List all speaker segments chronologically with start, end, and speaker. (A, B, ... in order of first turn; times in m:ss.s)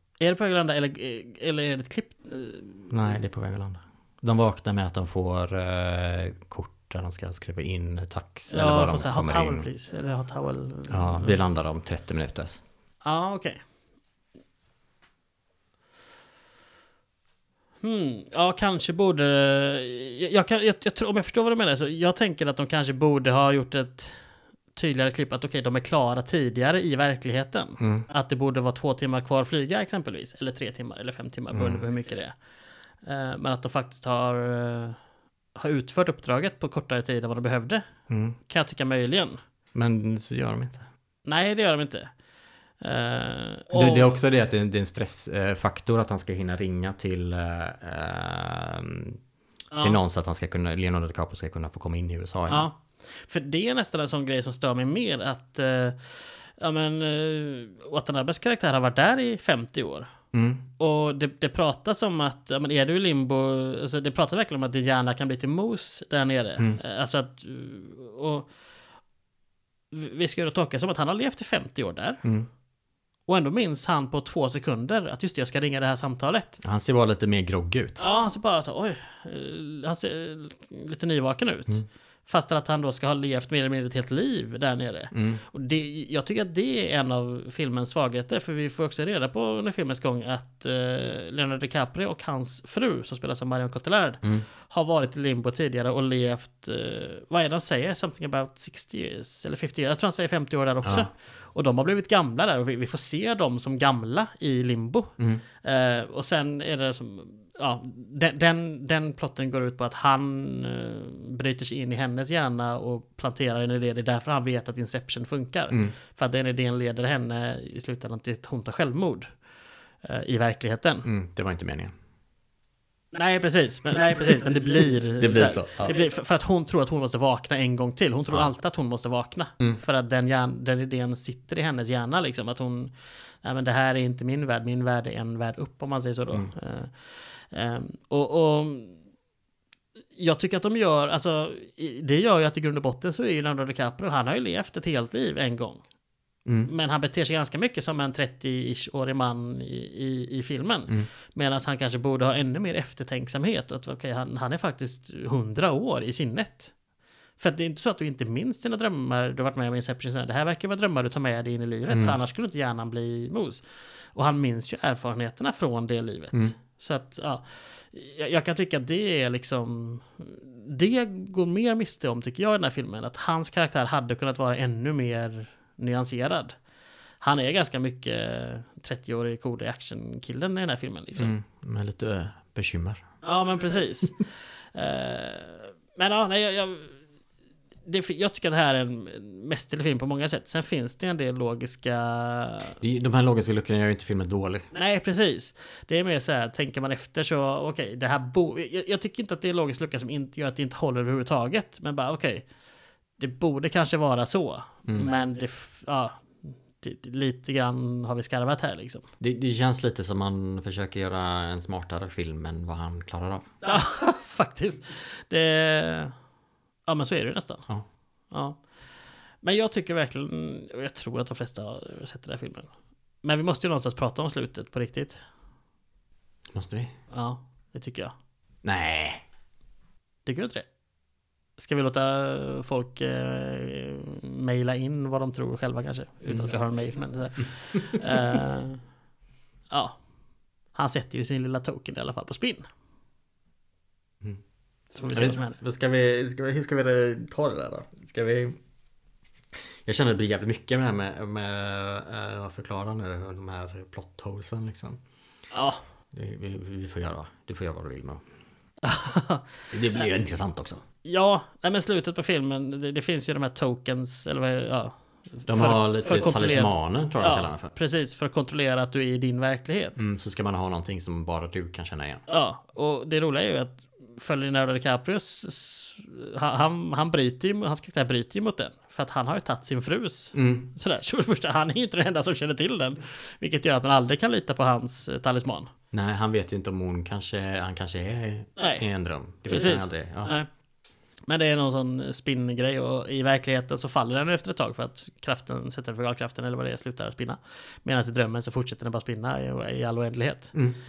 0:00.2-0:03.2 A
0:02.9-0:09.7 B
0:08.5-0:11.4 A
0:10.9-0:12.6 B
0:13.0-0:13.6 A
0:17.8-0:24.2 A
0:24.7-0:32.3 A
0:27.8-0:28.0 B
0:31.5-0:31.8 B
0:33.0-0:35.0 A
0:35.6-0:37.8 A
0:38.1-0:38.4 B
0:38.5-0:39.4 A
0:39.7-0:40.8 B
0:41.2-0:42.1 A
0:42.8-0:44.2 A
0:43.7-0:49.2 B
0:49.7-0:50.0 A
0:49.8-0:52.7 B
0:52.5-1:00.1 A
1:00.3-1:00.6 B
1:00.8-1:08.5 A
1:09.9-1:12.2 A
1:12.2-1:12.5 B
1:13.3-1:16.6 A
1:16.6-1:18.0 B
1:18.0-1:45.1 A
1:25.1-1:25.4 B
1:45.6-1:59.3 A
1:55.7-1:56.0 B
2:00.0-2:01.1 A
2:01.0-2:01.9 B
2:03.1-2:19.0 A
2:05.2-2:05.9 B
2:20.1-2:25.8 A
2:26.4-2:26.7 B
2:26.6-2:36.7 A
2:37.4-2:43.6 A
2:41.9-2:42.2 B
2:44.1-2:56.5 A
2:57.2-3:01.3 A
3:01.2-3:03.0 B
3:03.2-3:07.0 A
3:07.8-3:12.8 A
3:12.8-3:14.7 B
3:14.7-3:22.5 A
3:23.2-3:29.0 A
3:29.2-3:33.5 B
3:33.6-3:36.1 A
3:36.9-3:37.7 A
3:38.3-3:38.6 A
3:39.4-3:42.7 A
3:43.2-3:45.2 A
3:46.5-3:46.9 B
3:47.1-3:48.1 A
3:48.6-3:49.2 B
3:50.2-3:50.6 A
3:51.6-3:58.8 A
3:56.3-3:56.5 B
3:59.7-4:00.0 A
4:00.7-4:02.6 A
4:04.9-4:05.6 A
4:05.1-4:08.6 B
4:09.8-4:15.0 B
4:15.5-4:15.8 A
4:16.1-4:18.2 B
4:18.8-4:19.4 A
4:19.7-4:20.8 B
4:21.0-4:30.0 A
4:25.5-4:27.7 B
4:30.0-4:32.2 B
4:32.3-4:45.7 A
4:40.3-4:40.7 B
4:45.9-4:50.3 B
4:48.6-4:48.8 A
4:49.5-4:50.5 A
4:51.3-5:00.5 A